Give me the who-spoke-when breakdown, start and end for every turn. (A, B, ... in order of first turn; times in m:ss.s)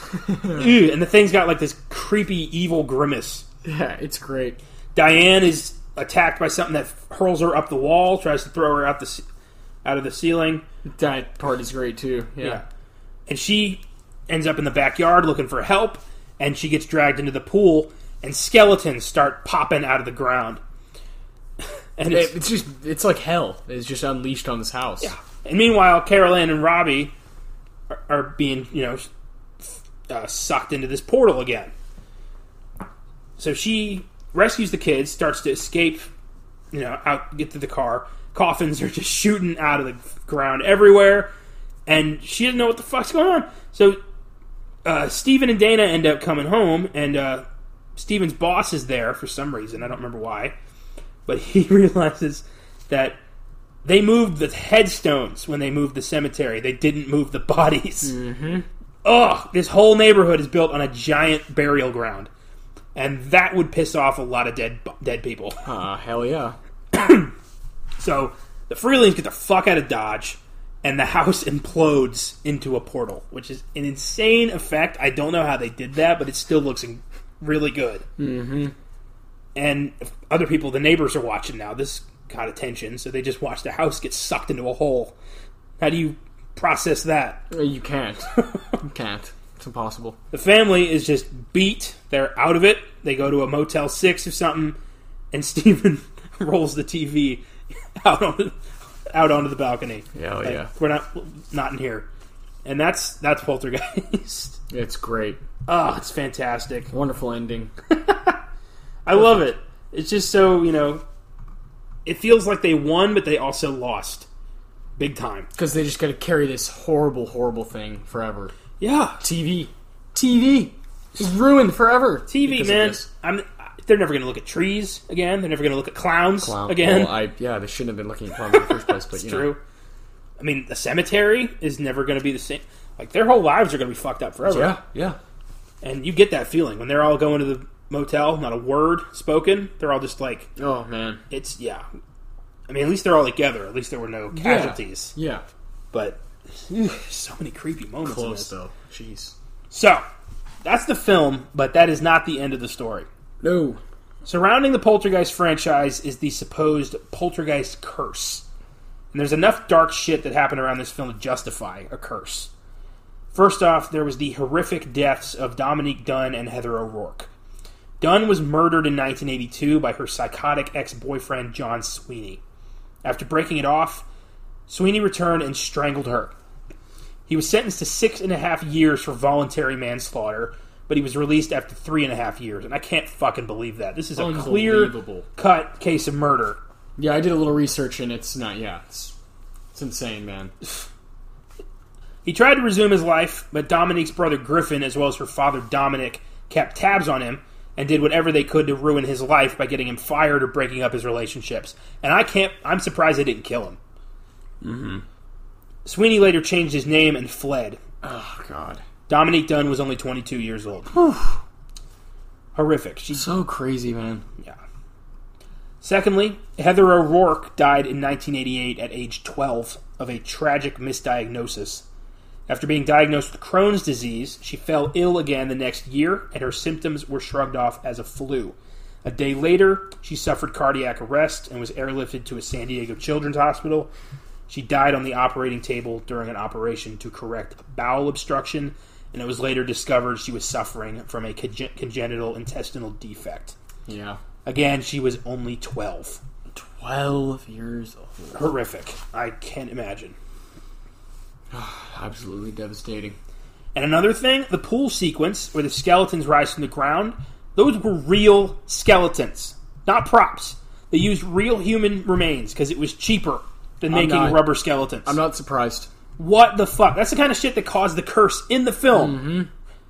0:00.3-0:00.7 A
0:00.4-0:03.5 B
0:03.6-0:04.6 A
0:05.0-0:09.2 B
0:09.8-0:10.6 B
0:10.8-0:12.6 A
0:13.3-0:20.6 B
0:22.0-0:22.4 B
0:22.1-0:25.1 A
0:25.0-0:27.1 B
0:27.9-0:29.1 B
0:29.6-0:31.7 B
0:33.4-0:36.1 B
0:36.7-0:41.3 B
0:41.9-0:44.0 B
0:44.8-0:47.4 B
0:48.0-0:50.6 B
0:51.3-0:53.2 B
0:53.8-0:58.1 B
0:58.0-0:58.7 A
0:59.0-1:02.3 B
1:03.0-1:05.6 B
1:05.6-1:06.6 A
1:06.9-1:07.3 B
1:08.0-1:18.0 B
1:18.2-1:18.8 A
1:19.6-1:25.2 B
1:25.8-1:27.4 B
1:27.5-1:30.2 A
1:30.3-1:34.8 B
1:35.3-1:37.5 B
1:38.0-1:38.6 B
1:39.1-1:42.1 B
1:40.1-1:40.7 A
1:42.6-1:44.6 B
1:44.7-1:45.4 A
1:45.7-1:46.9 B
1:46.9-1:47.7 A
1:47.9-1:48.4 B
1:49.1-1:51.0 B
1:49.2-1:49.4 A
1:52.1-1:54.3 B
1:55.0-1:55.5 B
1:55.6-1:58.5 A
1:58.8-1:59.2 B
1:59.2-2:03.1 A
2:02.3-2:07.2 B
2:06.4-2:09.5 A
2:08.9-2:09.6 B
2:10.4-2:14.8 B
2:14.4-2:15.2 A
2:15.8-2:20.5 B
2:20.6-2:21.2 A
2:21.3-2:21.8 B
2:22.7-2:25.1 B
2:24.3-2:25.4 A
2:25.9-2:28.5 B
2:28.0-2:29.4 A
2:29.7-2:30.0 B
2:30.6-2:33.1 B
2:33.4-2:33.8 A
2:34.3-2:38.4 B
2:39.1-2:42.5 B
2:43.3-2:47.3 B
2:48.0-2:52.4 B
2:53.0-2:54.0 B
2:54.7-2:56.3 B
2:57.3-3:06.6 B
3:04.2-3:05.3 A
3:07.0-3:09.2 A
3:09.7-3:10.5 A
3:12.2-3:23.8 B
3:24.6-3:25.0 A
3:25.9-3:27.8 B
3:28.0-3:28.8 A
3:29.1-3:30.9 B
3:30.9-3:31.4 A
3:32.6-3:33.2 B
3:33.1-3:34.2 A
3:35.8-3:41.8 B
3:42.5-3:53.9 B
3:54.5-4:03.6 B
4:03.9-4:04.2 A
4:04.4-4:06.2 B
4:06.5-4:08.5 A
4:08.4-4:10.2 B
4:11.5-4:13.2 A
4:13.8-4:25.2 B
4:23.9-4:24.5 A
4:25.0-4:25.9 A
4:26.2-4:29.2 B
4:28.9-4:29.5 A